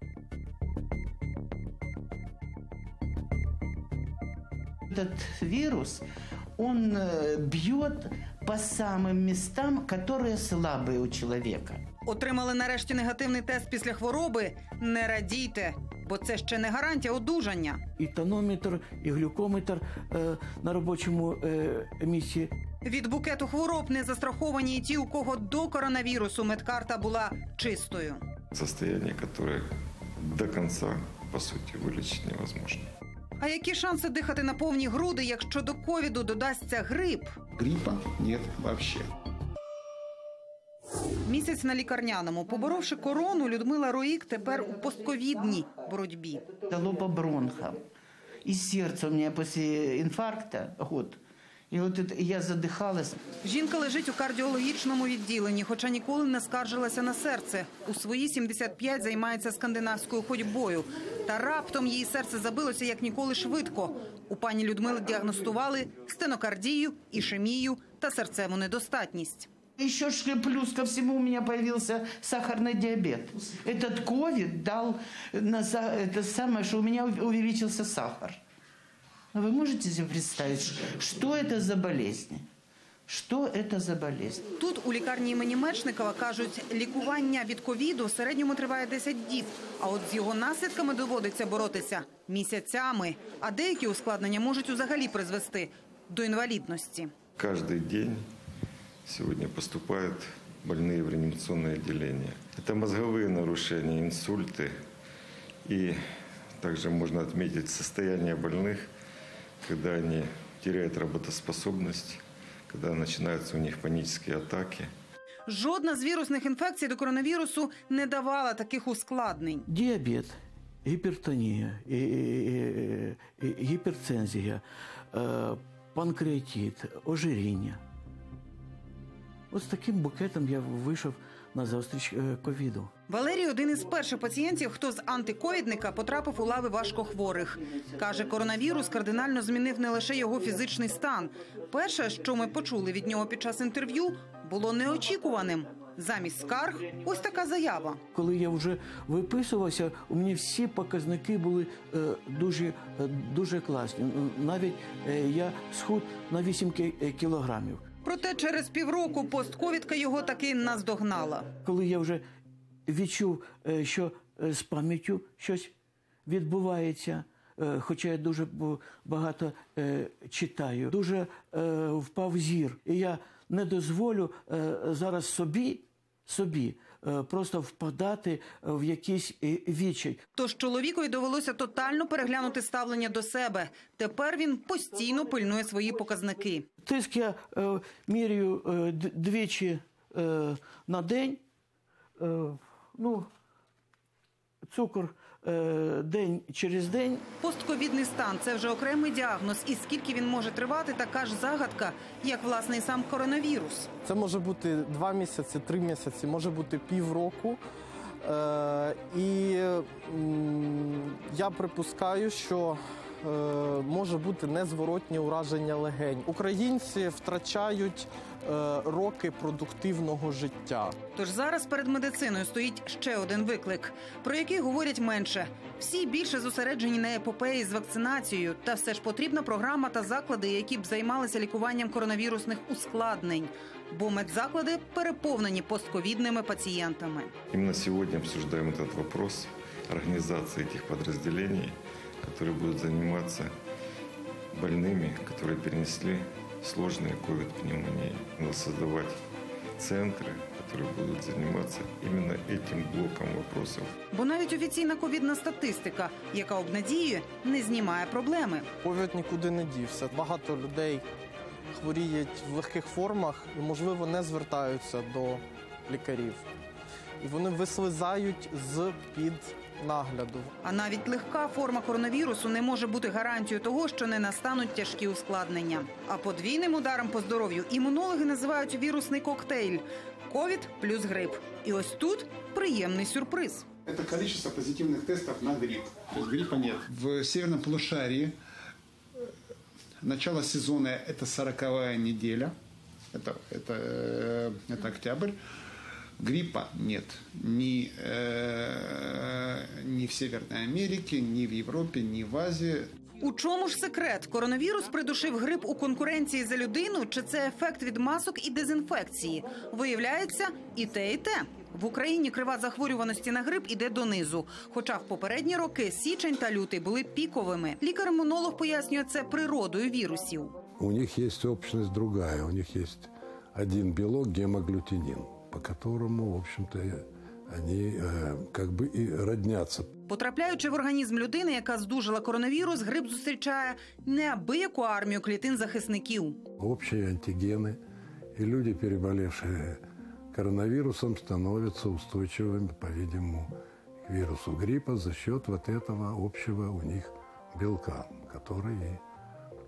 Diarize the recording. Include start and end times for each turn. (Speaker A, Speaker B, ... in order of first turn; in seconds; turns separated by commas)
Speaker A: 4.9-6.0, Speaker A: 6.6-11.8, Speaker B: 12.1-17.8, Speaker C: 18.0-22.5, Speaker B: 22.8-28.2, Speaker D: 28.5-29.6, Speaker D: 30.2-32.9, Speaker B: 33.4-37.3, Speaker E: 37.6-39.1, Speaker B: 41.2-46.5, Speaker A: 46.7-47.8, Speaker A: 48.4-51.2, Speaker A: 51.7-53.2, Speaker B: 53.4-69.5, Speaker A: 69.8-78.4, Speaker A: 79.3-82.4, Speaker A: 83.1-84.4, Speaker B: 84.6-97.1, Speaker D: 97.4-98.2, Speaker D: 99.0-104.7, Speaker D: 105.7-106.0, Speaker D: 106.6-108.9, Speaker D: 109.6-114.9, Speaker B: 115.5-119.7, Speaker C: 119.7-127.8, Speaker C: 129.5-132.9, Speaker B: 133.1-148.0, Speaker C: 148.1-157.8, Speaker B: 158.0-161.5, Speaker C: 161.6-162.2, Speaker C: 162.9-165.7, Speaker C: 166.3-180.2, Speaker B: 180.3-186.7, Speaker C: 186.8-191.4, Speaker C: 192.2-193.3, Speaker C: 194.7-197.3, Speaker B: 197.4-203.9, Speaker F: 204.0-207.6, Speaker F: 208.2-221.0, Speaker B: 221.1-237.3, Speaker D: 237.5-243.5, Speaker D: 244.5-249.2, Speaker D: 249.8-253.9, Speaker B: 254.1-258.7, Speaker F: 258.8-261.1, Speaker F: 261.7-266.5, Speaker F: 267.2-270.5, Speaker B: 270.6-283.6, Speaker E: 283.9-288.3, Speaker E: 290.0-292.5, Speaker E: 293.1-295.4, Speaker E: 296.2-302.9, Speaker B: 303.2-320.6, Speaker G: 320.8-329.9, Speaker B: 330.1-336.4, Speaker G: 336.6-337.8, Speaker G: 338.3-339.8, Speaker G: 340.3-343.5, Speaker G: 344.1-349.0